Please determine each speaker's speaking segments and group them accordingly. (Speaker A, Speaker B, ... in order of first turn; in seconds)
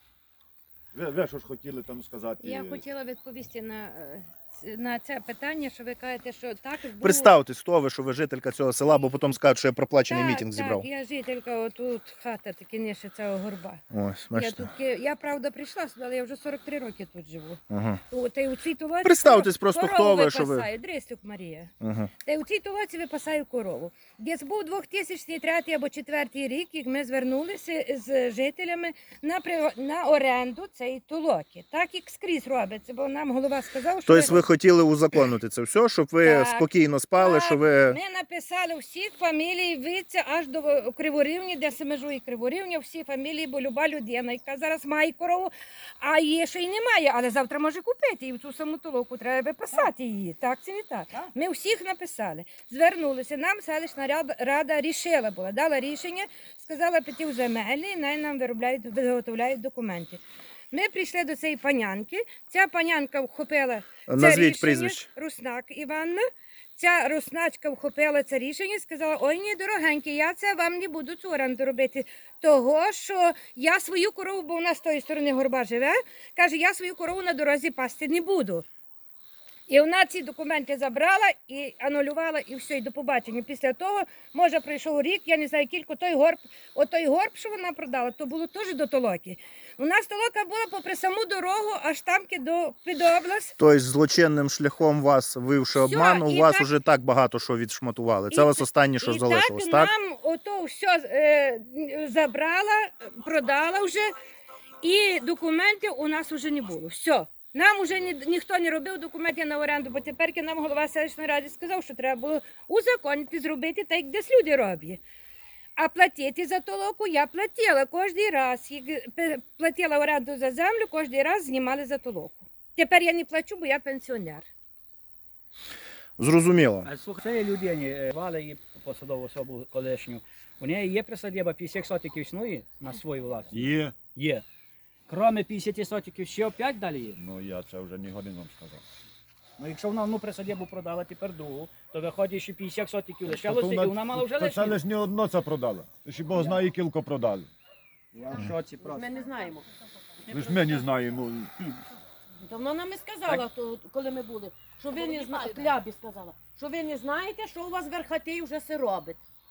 Speaker A: 0.9-2.8, 133.5-133.9, 137.1-138.8, 143.2-147.5, 150.3-151.5
Speaker B: 2.4-7.3, 10.1-13.8, 14.3-21.7, 22.2-34.4, 36.2-60.2, 60.7-66.2, 66.8-78.6, 79.7-93.5, 95.7-96.7, 98.3-104.0, 104.8-115.0, 115.8-124.4
Speaker C: 7.0-10.8, 13.9-14.6, 17.7-18.0, 19.0-20.7, 21.8-22.1, 34.0-38.0, 64.1-65.0, 93.6-99.9, 126.2-126.9
Speaker D: 126.8-134.4, 135.1-137.2, 139.6-144.8, 146.3-146.6, 148.1-149.1
Speaker E: 148.8-149.7, 152.4-159.2